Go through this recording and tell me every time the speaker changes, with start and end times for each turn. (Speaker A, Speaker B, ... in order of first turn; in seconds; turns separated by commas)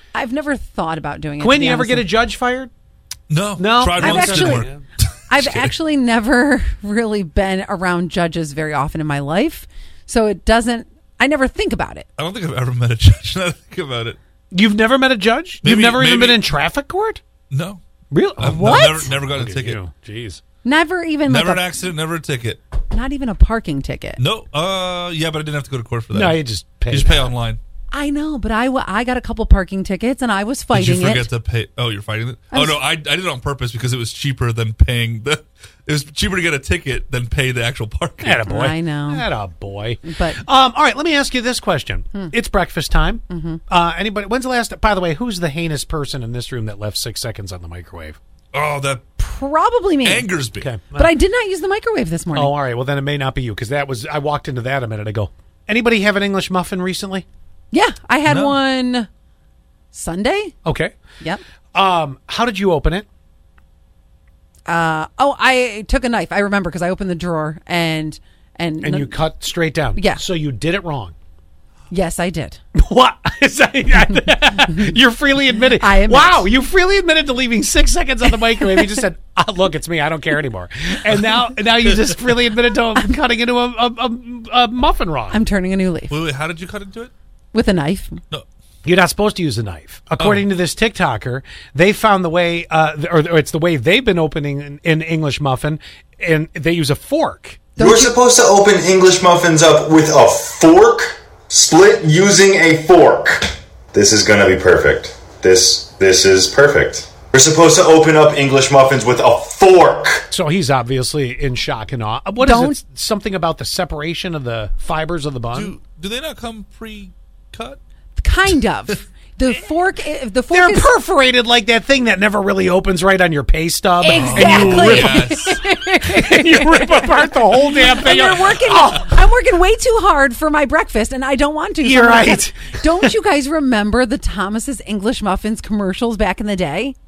Speaker A: 0.1-2.1, Speaker B: 1.4-2.7, Speaker C: 3.3-5.7, Speaker B: 3.6-4.8, Speaker A: 4.0-4.7, Speaker A: 5.3-12.1, Speaker C: 12.2-14.2, Speaker B: 14.5-17.2, Speaker C: 15.6-16.5, Speaker C: 17.5-17.8, Speaker B: 18.1-20.4, Speaker C: 18.4-19.8, Speaker A: 18.5-19.1, Speaker A: 20.6-21.8, Speaker C: 21.3-22.6, Speaker A: 22.9-24.2, Speaker C: 24.2-27.6, Speaker B: 26.1-27.3, Speaker A: 27.9-31.3, Speaker C: 30.7-38.4, Speaker A: 32.5-32.8, Speaker B: 38.2-48.2, Speaker A: 38.5-39.3, Speaker A: 40.0-40.4, Speaker A: 43.3-43.6, Speaker C: 48.5-49.0, Speaker A: 49.2-50.3, Speaker C: 50.0-50.7, Speaker B: 50.6-51.1, Speaker A: 51.0-52.6, Speaker B: 52.3-57.3, Speaker A: 57.7-59.1, Speaker C: 58.2-58.6, Speaker A: 59.9-60.6, Speaker B: 60.6-60.9, Speaker B: 61.7-63.1, Speaker A: 64.7-69.2, Speaker B: 68.8-71.2, Speaker A: 70.0-70.2, Speaker A: 71.9-72.6, Speaker B: 72.8-85.4, Speaker A: 74.2-75.0, Speaker A: 75.7-76.5, Speaker A: 78.6-79.0, Speaker A: 85.3-86.2, Speaker C: 86.1-87.1, Speaker A: 87.5-88.2, Speaker B: 88.8-97.7, Speaker C: 90.2-90.4, Speaker A: 97.8-98.1, Speaker D: 97.8-110.3, Speaker B: 110.3-115.7, Speaker A: 112.4-112.8, Speaker C: 115.5-117.8, Speaker A: 118.2-120.9, Speaker B: 120.5-129.1, Speaker A: 124.0-136.9, Speaker C: 124.1-125.6, Speaker B: 131.8-133.1